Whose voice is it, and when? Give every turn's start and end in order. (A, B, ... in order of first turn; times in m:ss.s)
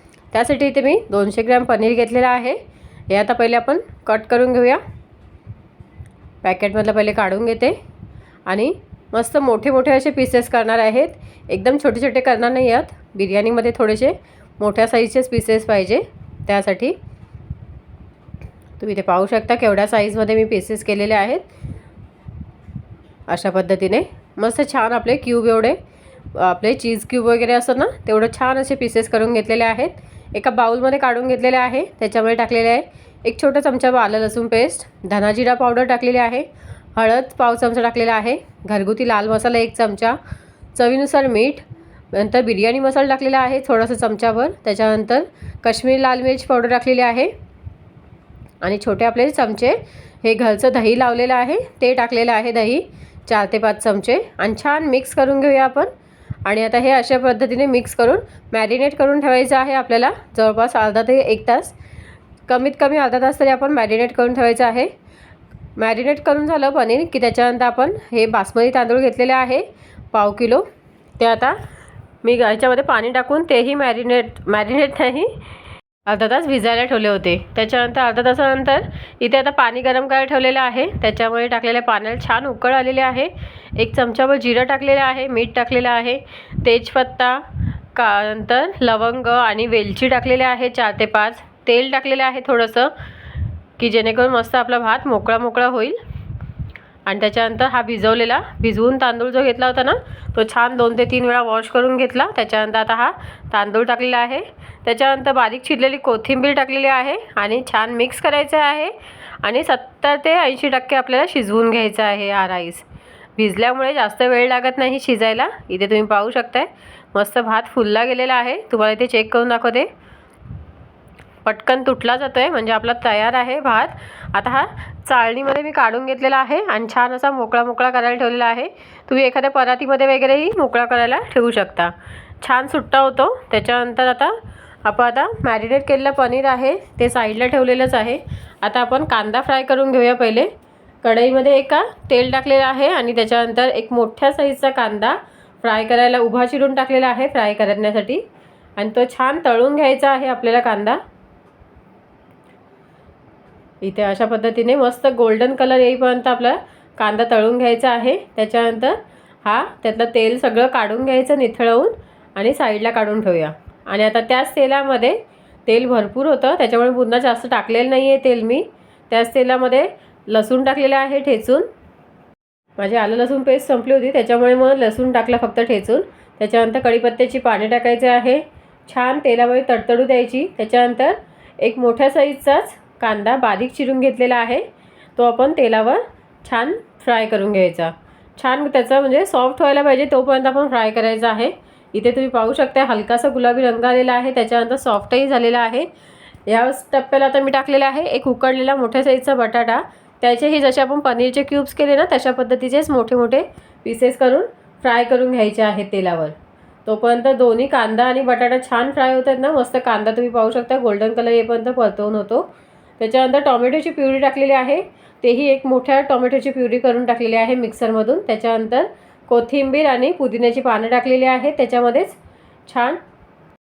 0:00.3-0:04.8 A
0:06.4-0:07.8 A
0:08.5-0:17.0 A
0:18.8-0:21.5 A
0:23.3-0:25.8 A
0:26.3-0:40.2 A
0:40.8-0:47.3 A
0:48.6-0:55.9 A
0:56.4-1:01.8 A
1:02.5-1:04.9 A
1:05.8-1:10.7 A
1:11.2-1:11.6 A
1:12.2-1:15.4 A
1:16.1-1:32.9 A
1:33.8-1:36.0 A
1:37.1-1:52.9 A
1:53.4-1:59.9 A
2:01.4-2:20.5 A
2:21.0-2:28.2 A
2:28.8-2:31.0 A
2:33.8-2:51.7 A
2:52.8-3:15.9 A
3:16.5-3:26.4 A
3:26.9-3:43.0 A